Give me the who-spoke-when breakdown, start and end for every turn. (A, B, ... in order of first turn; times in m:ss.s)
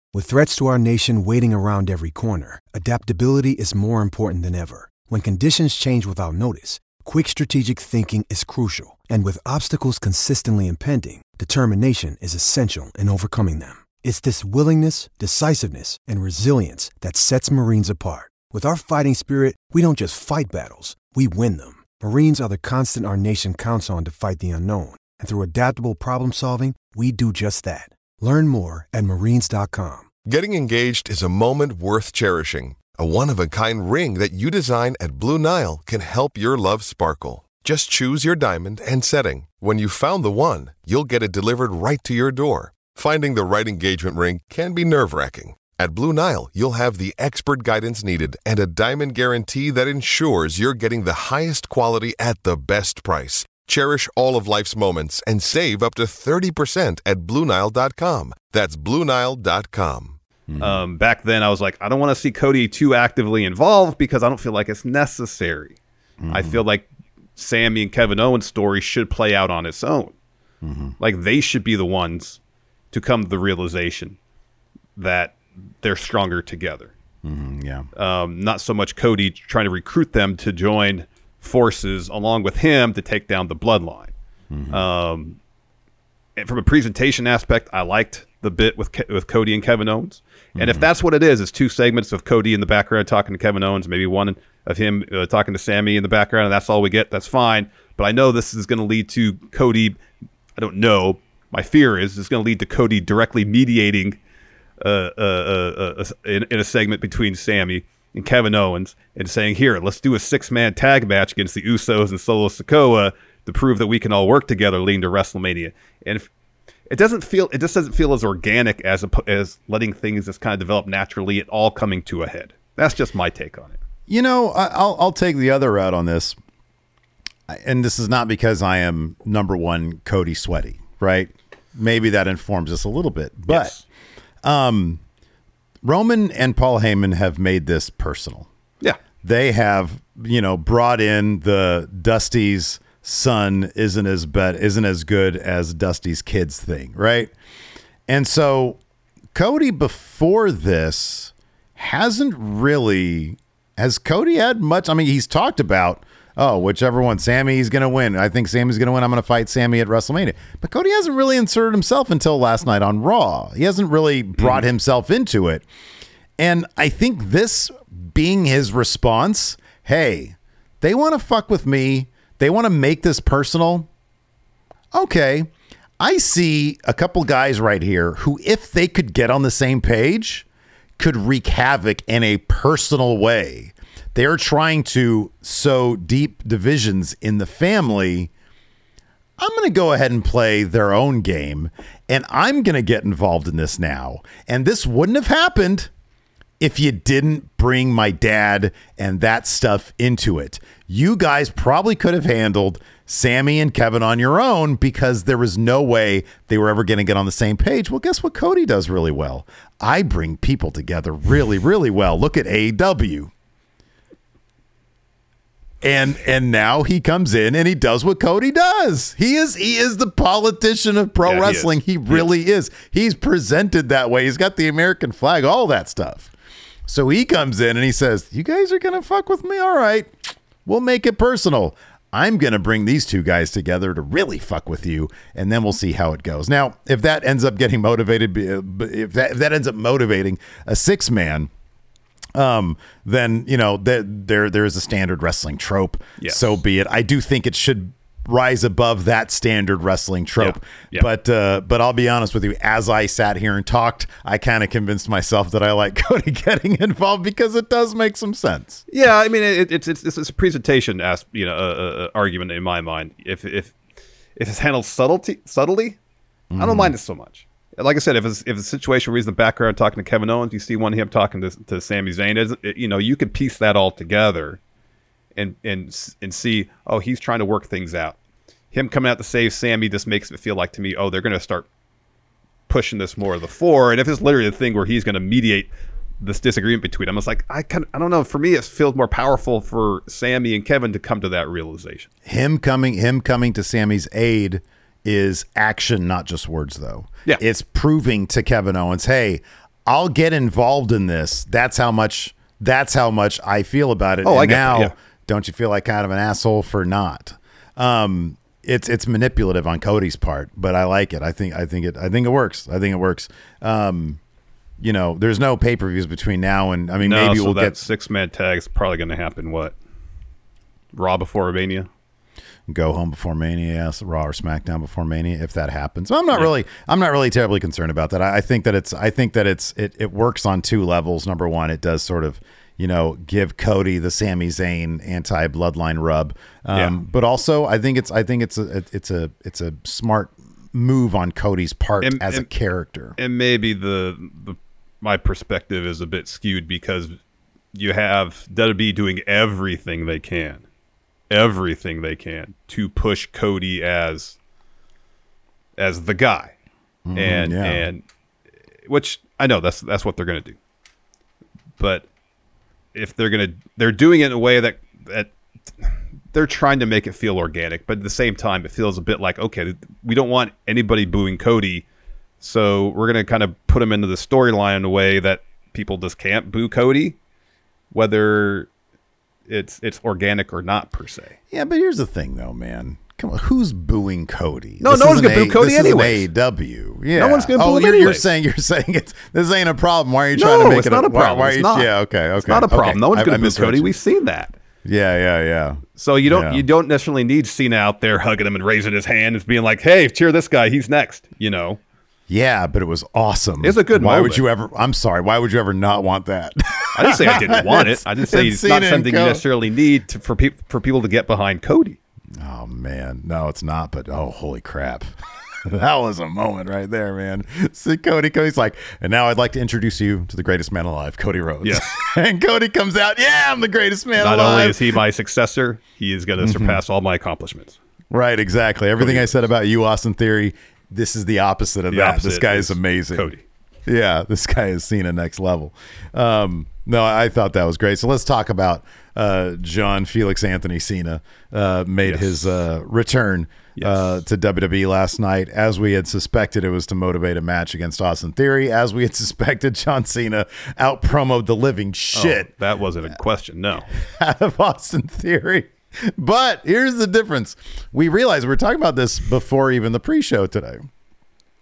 0:00.1-0:30.1 A
0:30.2-1:00.2 B
1:00.5-1:00.8 C
1:00.6-1:05.8 D
1:06.2-1:06.6 C
1:06.3-1:10.1 D
1:10.6-1:11.0 C
1:11.0-1:12.4 D
1:12.9-1:14.2 D
1:15.0-1:16.9 D
1:17.2-1:17.9 C
1:18.0-1:24.1 D
1:24.5-1:24.8 C
1:24.7-1:25.4 D
1:26.4-1:40.0 D
1:30.6-1:30.8 C
1:40.6-1:44.2 D
1:44.8-1:56.3 D
1:56.9-2:03.8 D
2:04.1-2:06.4 C
2:07.5-2:13.8 C
2:13.5-2:13.8 D
2:14.4-2:15.0 C
2:15.8-2:18.5 C
2:19.2-2:27.3 C
2:28.1-2:28.8 C
2:29.3-2:45.7 C
2:44.4-2:44.6 D
2:46.4-2:53.9 C
2:54.9-3:00.5 C
3:01.0-3:08.3 C
3:09.4-3:15.9 C
3:16.6-3:33.3 C
3:35.8-3:46.3 C
3:41.2-3:42.3 D
3:46.9-4:01.5 C
4:02.4-4:18.8 C
4:06.2-4:06.6 D
4:10.4-4:11.1 D
4:18.9-4:23.8 D
4:24.4-4:26.0 D
4:26.5-4:26.9 C
4:26.6-4:34.6 D
4:35.4-4:38.2 D
4:38.7-4:41.7 D
4:42.7-4:52.1 D
4:52.2-5:14.2 C
5:04.2-5:04.9 D
5:14.8-5:17.8 C
5:17.0-5:19.8 D
5:20.9-5:21.9 D
5:22.7-5:43.2 C
5:36.7-5:37.0 D
5:42.0-5:42.5 D
5:43.2-5:47.2 D
5:47.7-5:50.6 D
5:51.3-5:54.4 D
5:55.8-5:56.5 D
5:57.0-5:57.9 C
5:57.2-5:58.0 D
5:58.9-6:00.6 D
6:01.8-6:02.1 D
6:02.9-6:11.8 D
6:12.4-6:17.2 D
6:17.9-6:18.7 D
6:19.5-6:21.4 D
6:21.5-6:33.9 C
6:24.8-6:26.3 D
6:27.2-6:28.3 D
6:30.4-6:34.6 D
6:34.8-6:36.6 C
6:36.0-6:41.8 D
6:42.3-6:49.4 C
6:43.6-6:44.4 D
6:47.0-6:52.0 D
6:52.4-7:04.9 C
7:01.6-7:02.0 D
7:04.2-7:07.8 D
7:06.4-7:06.8 C
7:08.1-7:13.3 C
7:09.0-7:09.3 D
7:11.9-7:13.4 D
7:13.9-7:32.5 C
7:22.0-7:22.4 D
7:23.8-7:24.2 D
7:32.1-7:33.9 D
7:34.0-7:40.9 C